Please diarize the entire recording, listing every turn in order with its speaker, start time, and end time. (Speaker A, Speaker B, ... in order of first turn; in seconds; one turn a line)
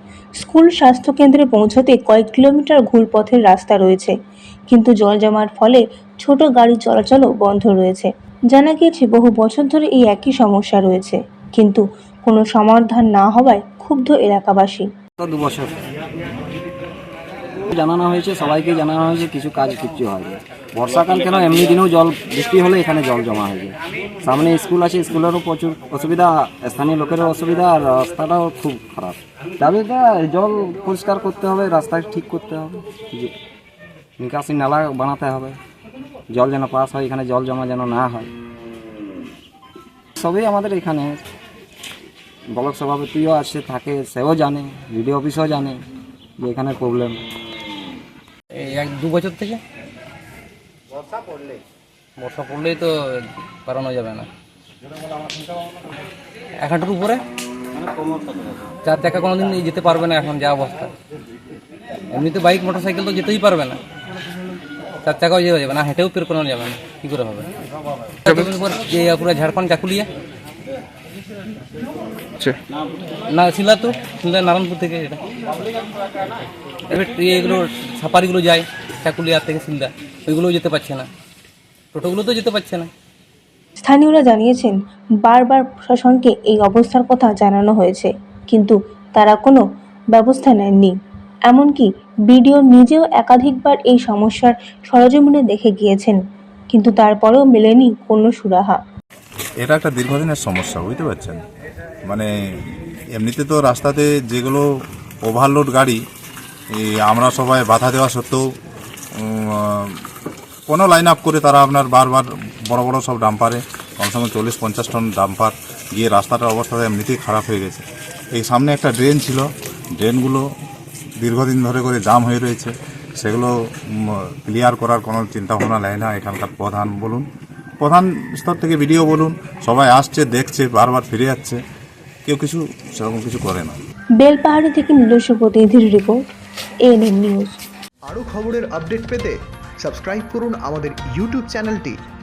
Speaker A: 0.4-4.1
Speaker A: 4.7-14.9
Speaker B: 15.2-15.8
Speaker B: 17.6-33.3
Speaker B: 34.2-35.6
Speaker B: 36.3-38.3
Speaker B: 40.2-41.2
Speaker B: 42.5-45.8
Speaker B: 46.4-47.2
Speaker C: 48.6-49.6
Speaker C: 52.2-54.3
Speaker C: 56.6-57.2
Speaker C: 58.8-60.9
Speaker C: 62.1-63.8
Speaker C: 65.0-67.5
Speaker C: 68.2-70.1
Speaker C: 73.3-75.2
Speaker C: 76.9-81.1
Speaker C: 81.9-82.9
Speaker A: 83.8-91.0
Speaker A: 91.5-96.2
Speaker A: 96.7-98.8
Speaker D: 99.6-101.4
Speaker D: 102.1-104.7
Speaker D: 105.2-106.0
Speaker D: 106.7-108.5
Speaker D: 109.2-110.0
Speaker D: 110.7-117.8
Speaker D: 118.3-119.5
Speaker D: 120.0-120.5
Speaker D: 121.2-127.3
Speaker D: 127.8-131.6
Speaker D: 132.3-133.8
Speaker A: 134.2-136.2
Speaker A: 136.9-137.6
Speaker E: 138.1-142.0